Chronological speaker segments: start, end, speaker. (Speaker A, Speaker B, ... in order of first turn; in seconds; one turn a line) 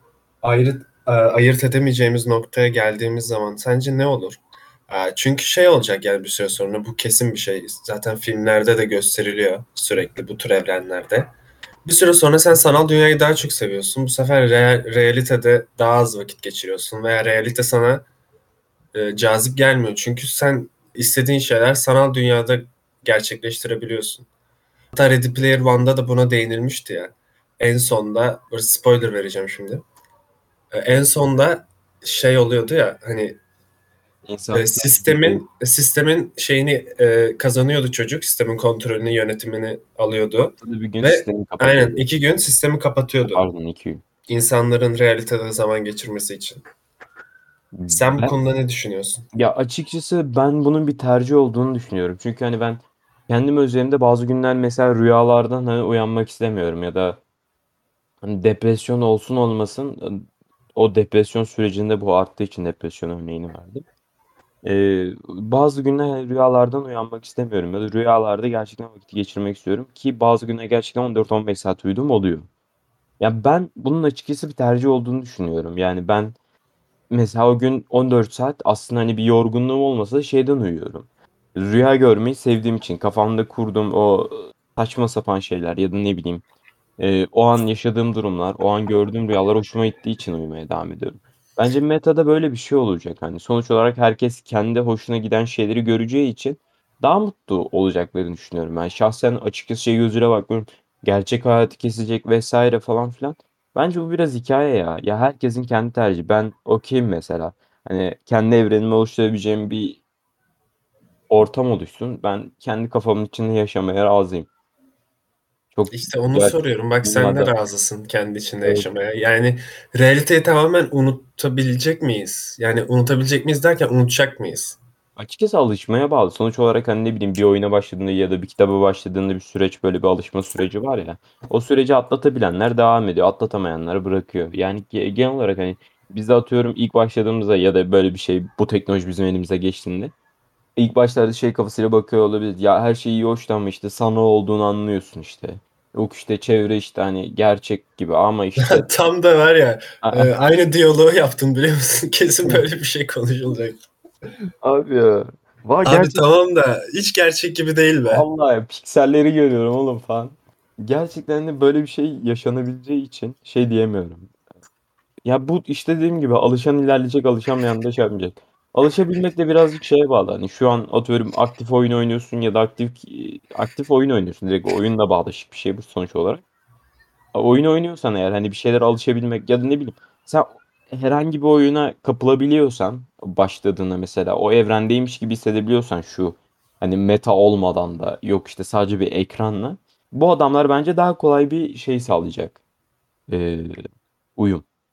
Speaker A: 0.4-11.3
Speaker A: 11.8-18.0
Speaker A: 18.9-24.3
Speaker A: 24.9-29.8
Speaker A: 30.7-33.4
Speaker B: 34.2-35.4
Speaker A: 34.5-43.4
Speaker B: 40.6-42.1
Speaker B: 43.3-44.0
Speaker A: 44.3-46.6
Speaker B: 47.7-48.3
Speaker A: 47.9-49.2
Speaker B: 49.3-57.2
Speaker B: 58.2-60.2
Speaker B: 60.7-63.8
Speaker B: 64.6-72.5
Speaker B: 73.2-76.3
Speaker B: 77.1-86.4
Speaker B: 87.0-110.0
Speaker B: 111.3-114.5
Speaker B: 115.7-117.5
Speaker A: 115.9-124.8
Speaker B: 125.2-140.1
Speaker B: 140.8-148.9
Speaker A: 148.6-153.8
Speaker B: 150.0-150.3
Speaker B: 154.6-156.2
Speaker A: 155.8-158.2
Speaker B: 158.1-164.3
Speaker B: 165.2-176.4
Speaker B: 177.3-192.6
Speaker B: 193.3-193.8
Speaker B: 194.3-194.7